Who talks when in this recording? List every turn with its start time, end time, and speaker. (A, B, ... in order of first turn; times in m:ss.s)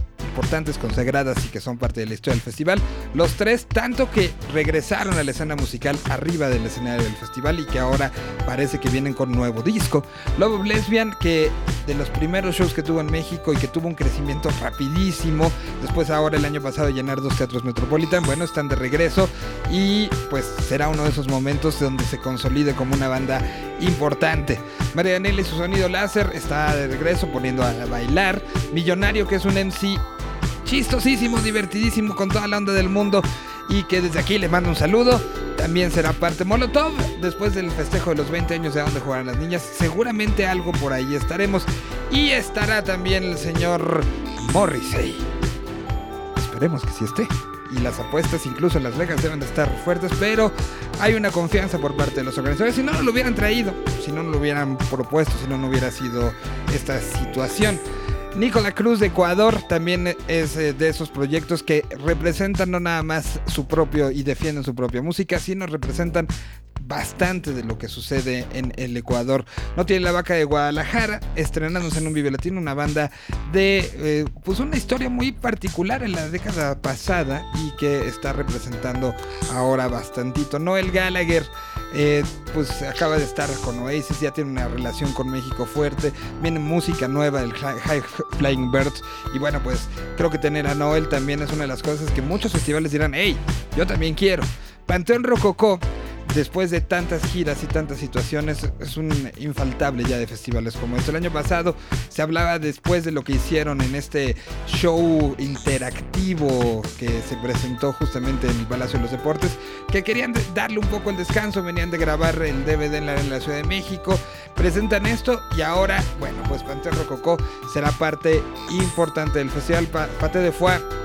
0:00.2-0:30.0 A
0:30.6-0:45.3 A
0:46.4-0:57.8 A
0:58.3-2:00.8 A